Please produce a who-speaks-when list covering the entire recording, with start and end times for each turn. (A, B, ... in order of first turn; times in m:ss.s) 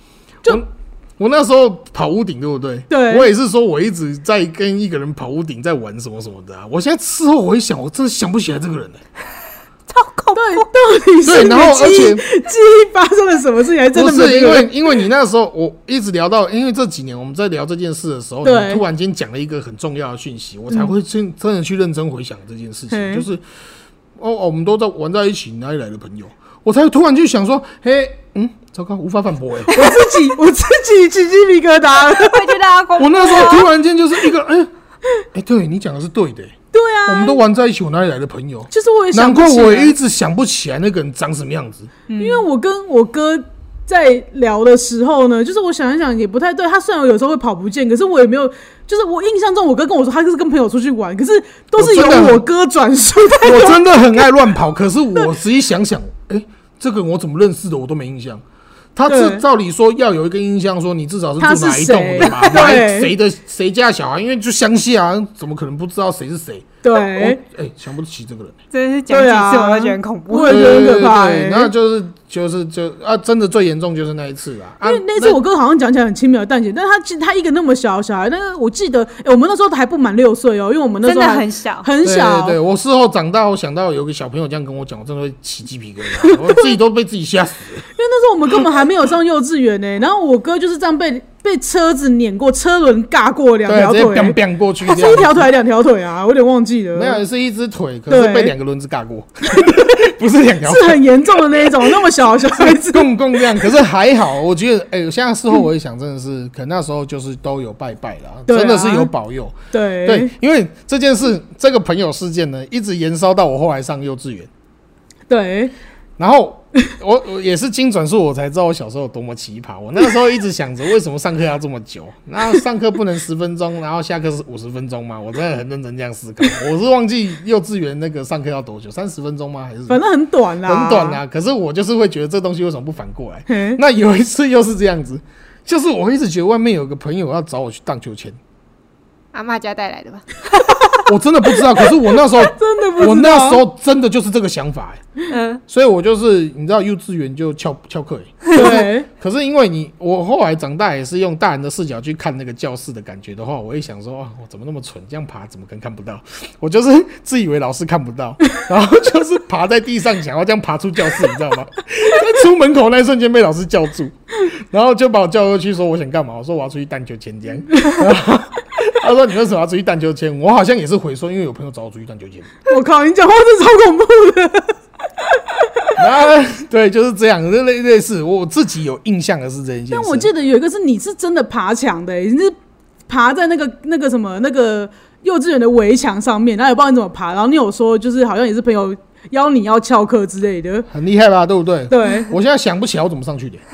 0:00.4-0:09.0 A
0:02.9-0:03.3 B
0:09.9-0:10.7 C
0:10.4-0:14.7 B
0:11.2-0:12.2 A
0:13.9-0:23.4 A
0:18.4-0:18.8 B
0:22.9-0:23.3 B
0:24.2-0:29.9 A
0:29.7-0:32.6 B
0:32.0-0:33.7 C
0:33.0-0:34.7 A
0:35.3-0:41.9 A
0:36.7-0:37.4 B
0:38.7-0:40.0 B
0:42.1-0:42.4 C
0:42.2-0:53.8 B
0:51.8-0:52.5 A
0:53.4-0:58.4 A
0:59.0-1:08.6 A
0:59.1-0:59.4 B
1:01.4-1:03.2 B
1:06.8-1:07.4 B
1:08.7-1:10.9 C
1:09.1-1:11.7 B
1:10.5-1:15.4 A
1:14.8-1:22.6 B
1:21.0-1:21.9 C
1:22.0-1:27.9 A
1:26.2-1:26.7 B
1:28.0-1:37.2 B
1:33.7-1:35.4 A
1:37.0-1:41.9 A
1:38.1-1:38.5 B
1:40.6-1:43.7 B
1:42.5-1:54.5 A
1:48.5-1:49.1 B
1:49.7-1:50.3 B
1:55.3-1:55.7 B
1:56.2-2:10.0 A
2:09.9-2:11.2 B
2:10.6-2:18.4 A
2:13.5-2:13.8 B
2:19.3-2:21.0 C
2:21.1-2:25.0 A
2:22.4-2:23.6 B
2:25.3-2:25.6 C
2:25.7-2:52.6 A
2:28.5-2:29.1 B
2:52.7-2:54.8 B
2:55.3-2:56.0 B
2:56.0-3:00.3 A
2:59.9-3:02.6 B
3:03.1-3:10.9 B
3:10.9-3:13.6 A
3:11.9-3:12.3 B